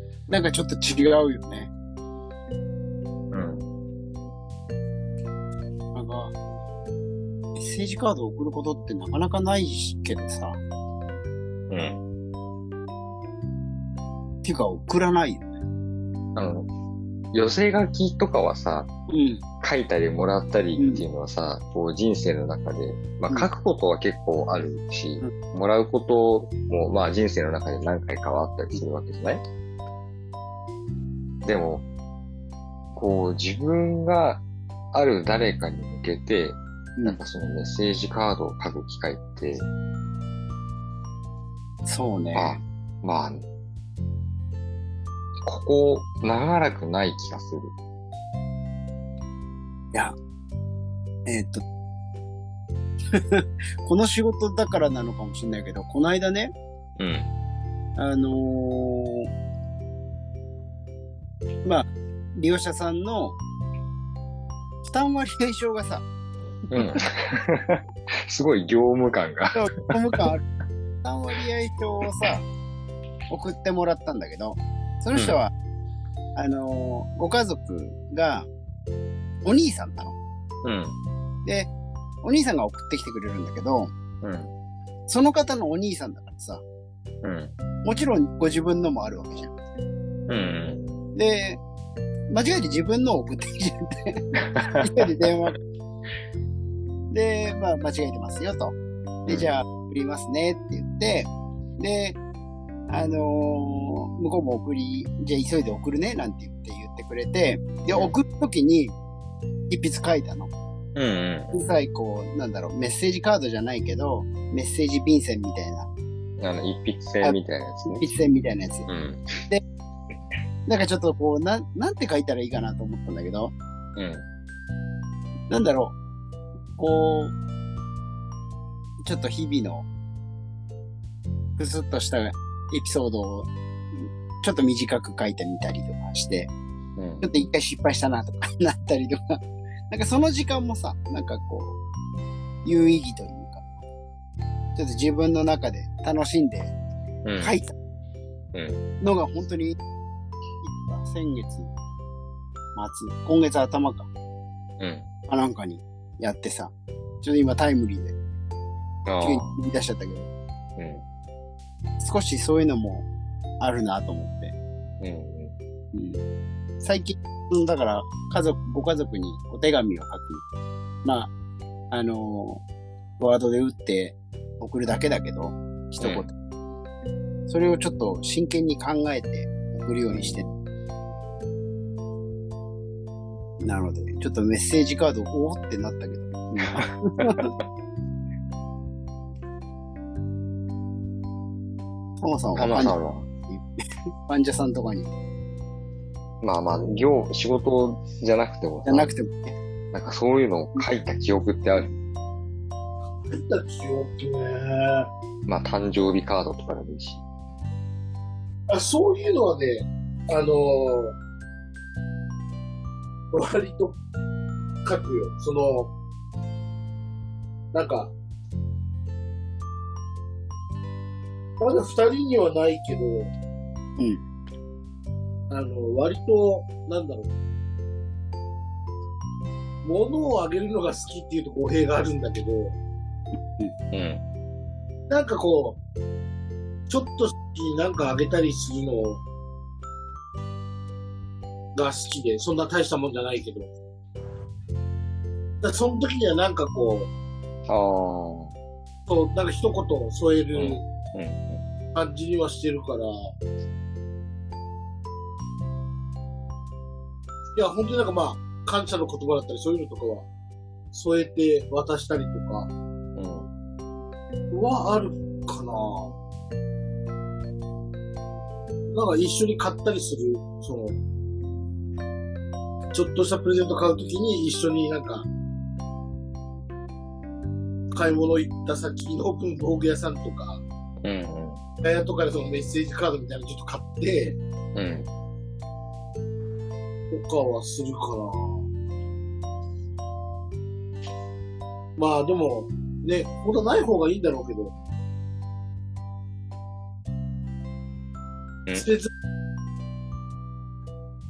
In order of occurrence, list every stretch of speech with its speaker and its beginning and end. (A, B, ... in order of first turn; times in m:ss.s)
0:00.3-0:01.7 A
0:03.3-0:03.7 B
0:05.9-0:06.3 A
0:07.6-0:10.6 A
0:11.7-0:12.0 B
0:14.4-0:15.5 A
0:16.4-0:16.7 B
0:17.3-0:18.9 B
0:19.1-0:19.4 A
0:19.6-0:29.4 B
0:20.8-0:21.0 A
0:31.4-0:31.8 B
0:32.9-0:39.7 B
0:41.8-0:42.6 A
0:42.3-0:43.4 B
0:45.4-0:47.7 B
0:51.2-0:51.6 A
0:53.1-0:56.5 A
0:57.0-0:57.3 B
0:58.0-0:59.3 A
1:01.6-1:03.4 A
1:04.8-1:06.0 A
1:06.7-1:10.2 B
1:09.5-1:10.4 A
1:11.0-1:12.4 A
1:13.3-1:15.5 A
1:15.1-1:15.4 B
1:16.3-1:18.5 A
1:19.4-1:20.2 A
1:20.6-1:21.0 B
1:21.4-1:21.7 A
1:22.2-1:23.9 A
1:24.2-1:24.5 B
1:25.1-1:26.6 A
1:27.2-1:27.5 B
1:27.8-1:29.5 A
1:30.3-1:31.0 B
1:31.1-1:31.6 A
1:32.3-1:34.2 A
1:34.3-1:35.3 B
1:34.8-1:35.6 A
1:37.1-1:38.7 A
1:39.2-1:39.6 B
1:39.3-1:42.2 A
1:42.9-1:48.9 A
1:49.7-1:50.5 A
1:50.9-1:51.7 B
1:51.5-1:55.9 A
1:56.4-1:58.1 B
1:57.2-1:58.9 A
1:58.8-1:59.4 B
2:00.6-2:03.5 A
2:04.0-2:04.2 B
2:05.5-2:05.9 A
2:06.7-2:07.3 A
2:09.0-2:09.9 A
2:11.6-2:16.5 A
2:17.0-2:17.4 B
2:17.2-2:19.4 A
2:19.9-2:21.8 A
2:22.6-2:23.7 A
2:24.7-2:26.8 A
2:27.2-2:27.6 B
2:27.4-2:27.7 A
2:28.5-2:28.8 B
2:29.0-2:29.8 A
2:30.6-2:31.7 A
2:32.7-2:34.1 A
2:34.8-2:35.1 B
2:35.3-2:38.2 A
2:39.0-2:39.6 B
2:39.2-2:40.3 A
2:40.8-2:41.0 B
2:42.0-2:43.1 A
2:43.6-2:44.6 A
2:45.0-2:45.5 B
2:45.9-2:46.2 A
2:46.8-2:50.4 A
2:51.0-2:51.3 A
2:51.9-2:52.6 A
2:53.2-2:56.3 A
2:56.0-2:56.3 B
2:57.5-3:00.4 A
3:00.1-3:00.6 B
3:03.6-3:07.5 A
3:06.8-3:07.6 B
3:12.2-3:13.0 A
3:12.5-3:13.3 B
3:14.2-3:15.1 A
3:16.4-3:19.1 B
3:18.8-3:19.6 A
3:19.9-3:22.0 B
3:23.3-3:25.1 C
3:25.5-3:27.2 B
3:28.7-3:31.2 C
3:33.3-3:34.0 C
3:34.8-3:35.9 C
3:37.7-3:38.1 C
3:41.6-3:43.3 C
3:45.5-3:47.3 C
3:49.8-3:52.8 C
3:53.9-3:54.2 B
3:55.1-3:55.8 C
3:56.9-3:59.2 C
4:01.7-4:03.7 C
4:05.6-4:07.1 C
4:07.7-4:08.5 B
4:09.1-4:10.8 C
4:10.5-4:11.6 B
4:11.9-4:13.3 C
4:17.6-4:20.3 C
4:20.9-4:22.7 C
4:23.2-4:23.5 B
4:24.5-4:26.1 C
4:28.9-4:31.0 C
4:32.9-4:35.3 C
4:37.9-4:40.6 C
4:41.0-4:41.6 B
4:41.8-4:44.4 C
4:44.7-4:45.1 B
4:47.1-4:48.6 C
4:52.0-4:54.7 C
4:58.7-4:59.1 C